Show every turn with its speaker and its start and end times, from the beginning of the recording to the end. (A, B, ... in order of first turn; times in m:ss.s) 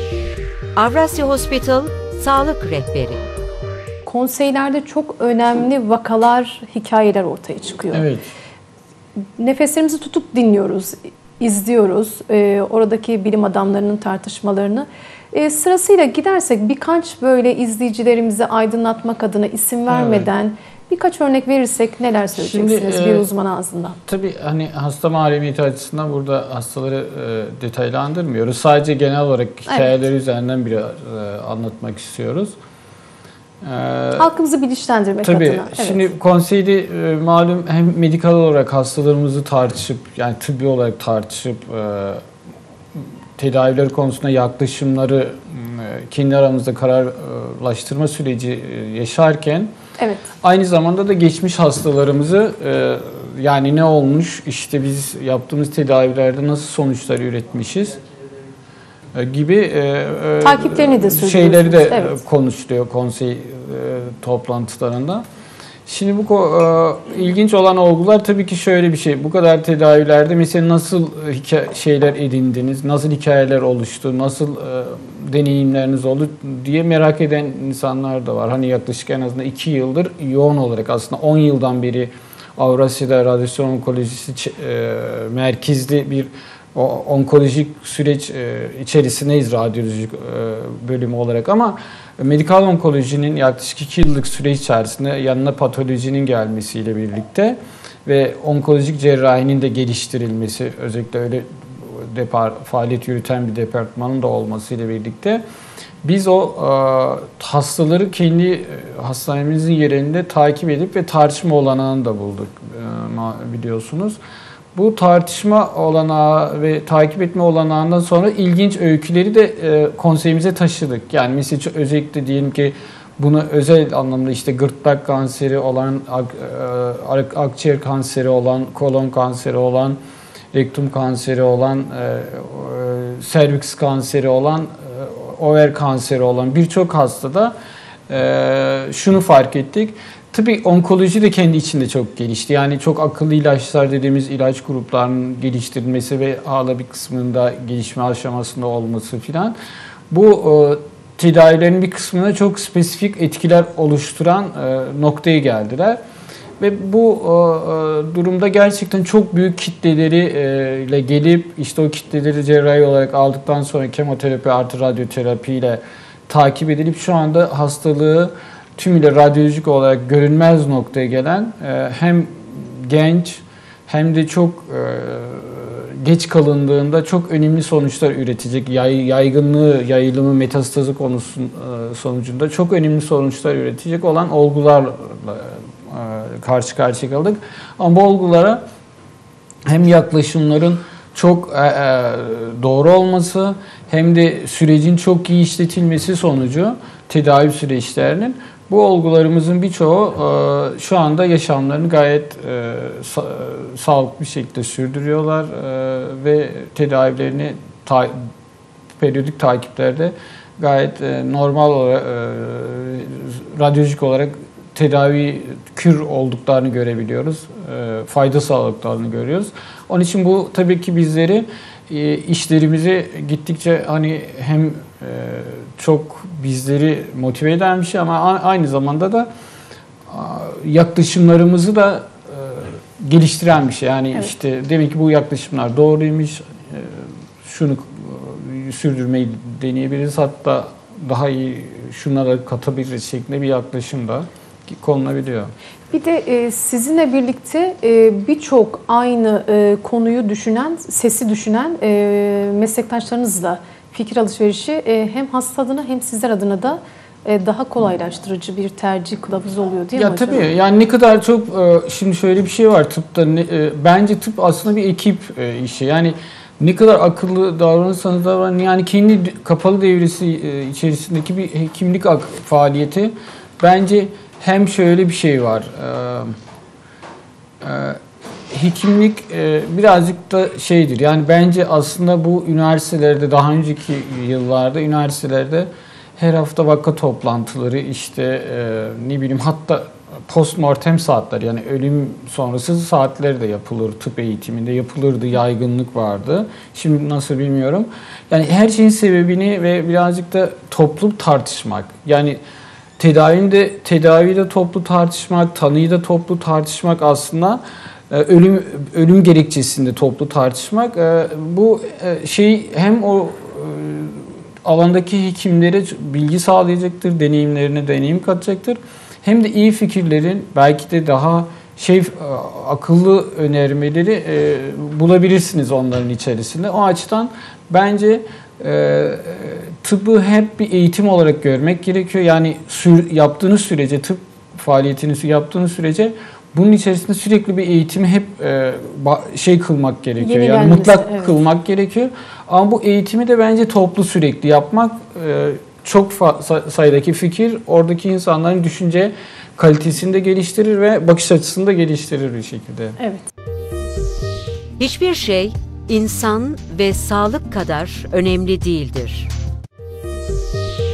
0:00.8-0:03.3 A
0:04.0-0:08.1 B
0:07.9-0:08.2 C
0:09.4-0:24.0 B
0:19.9-0:20.3 C
0:22.4-0:23.3 C
0:24.0-0:32.6 C
0:33.6-0:34.3 C
0:34.2-0:36.1 B
0:35.2-0:42.2 C
0:43.4-0:49.7 C
0:50.0-0:50.3 B
0:50.4-0:58.0 C
0:59.1-1:05.2 C
1:00.4-1:02.2 B
1:05.9-1:45.4 C
1:46.0-1:54.2 C
1:54.7-2:10.0 C
2:10.5-2:17.5 C
2:18.1-2:29.5 C
2:30.1-2:36.0 C
2:36.6-3:08.6 C
3:09.7-3:28.1 C
3:29.0-3:49.3 C
3:50.1-4:05.5 C
4:05.9-4:20.5 B
4:19.9-4:36.4 C
4:37.6-4:38.0 C
4:38.5-5:02.4 C
5:03.0-5:53.0 C
5:40.2-5:41.3 B
5:53.0-5:53.3 B
5:54.8-5:59.3 A